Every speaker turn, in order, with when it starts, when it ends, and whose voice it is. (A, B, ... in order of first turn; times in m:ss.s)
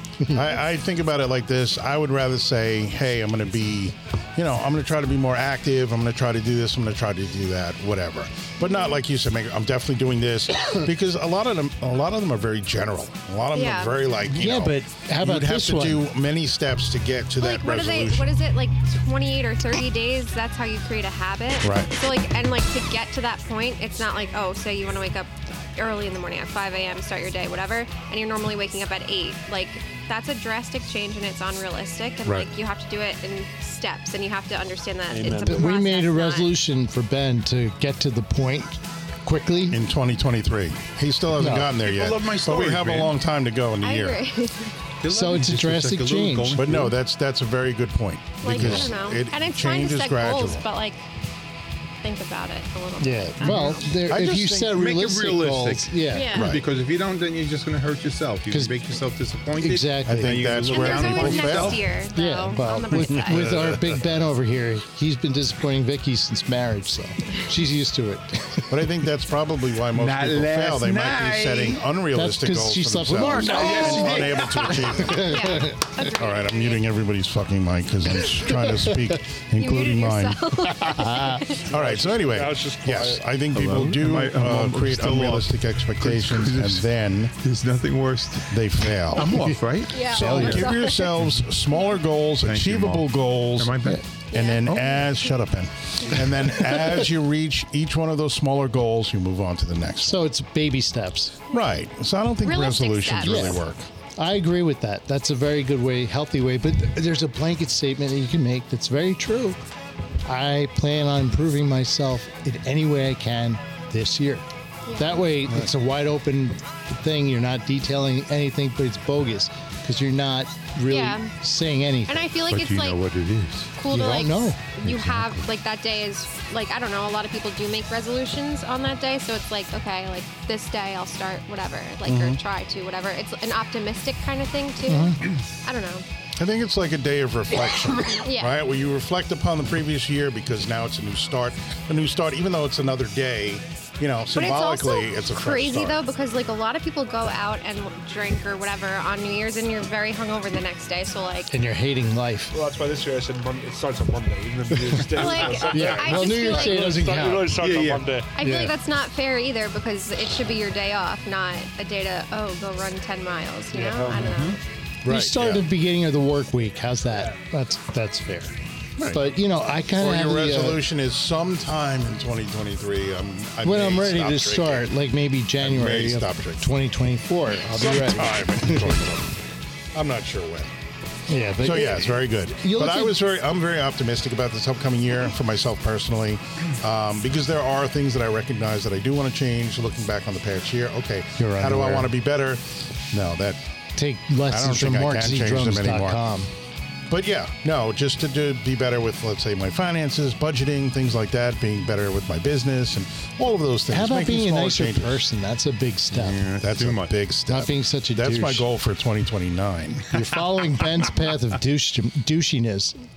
0:00.3-0:18.3 A
0:13.5-0:14.0 B
0:14.3-0:16.0 C
0:17.4-0:36.6 B
0:21.6-0:21.9 A
0:35.1-0:35.8 D
0:35.4-0:39.8 C
0:39.7-0:44.2 A
0:41.4-0:41.7 C
0:41.8-0:43.2 E
0:43.8-0:44.7 B
0:45.0-0:46.9 E
0:45.1-0:46.7 C
0:46.6-0:50.6 A
0:48.4-0:51.0 B
0:48.5-0:48.9 C
0:52.0-0:53.9 B
0:53.0-0:56.4 C
0:53.4-0:54.8 A
0:54.7-1:01.9 E
0:56.1-0:56.5 B
0:56.4-0:56.6 A
0:59.6-1:00.4 C
1:00.1-1:01.8 A
1:00.7-1:03.6 B
1:02.2-1:08.7 C
1:03.1-1:04.0 A
1:08.7-1:20.6 A
1:09.9-1:11.8 E
1:12.2-1:15.8 C
1:13.4-1:14.9 E
1:15.2-1:16.8 B
1:19.6-1:21.7 B
1:20.8-1:21.5 C
1:21.7-1:27.3 A
1:21.7-1:23.3 D
1:23.5-1:30.7 E
1:28.5-1:29.4 A
1:29.9-1:31.1 B
1:30.0-1:33.8 A
1:30.2-1:30.7 C
1:32.4-1:34.0 E
1:34.3-1:35.1 B
1:34.3-1:40.2 A
1:34.6-1:34.9 E
1:40.0-1:41.4 C
1:41.5-1:43.9 A
1:42.4-1:43.6 B
1:43.2-1:43.6 C
1:44.2-1:49.6 C
1:50.2-1:54.4 C
1:54.9-1:55.2 B
1:55.0-2:02.3 C
2:00.9-2:01.3 B
2:02.1-2:03.0 B
2:02.5-2:03.7 E
2:03.8-2:16.0 B
2:03.9-2:04.9 C
2:12.0-2:12.4 A
2:14.9-2:15.2 C
2:16.4-2:26.0 A
2:18.2-2:18.6 B
2:24.4-2:31.5 B
2:31.5-2:32.5 C
2:32.5-2:38.3 D
2:35.1-2:37.0 B
2:35.6-2:37.6 C
2:37.6-2:38.1 E
2:38.4-2:44.6 B
2:38.4-2:38.7 C
2:43.7-2:44.5 D
2:44.1-2:44.6 E
2:45.0-2:45.6 A
2:45.1-2:50.8 C
2:49.0-2:49.3 A
2:50.0-2:54.9 A
2:53.6-2:59.1 C
2:55.6-2:56.7 A
2:57.7-2:59.4 A
2:59.9-3:00.7 A
3:01.3-3:03.2 C
3:01.6-3:13.6 A
3:11.4-3:12.1 C
3:14.0-3:16.5 C
3:14.5-3:16.2 A
3:17.1-3:25.2 A
3:23.9-3:26.4 C
3:26.1-3:27.2 E
3:26.6-3:30.1 A
3:27.5-3:28.7 C
3:30.1-3:33.0 C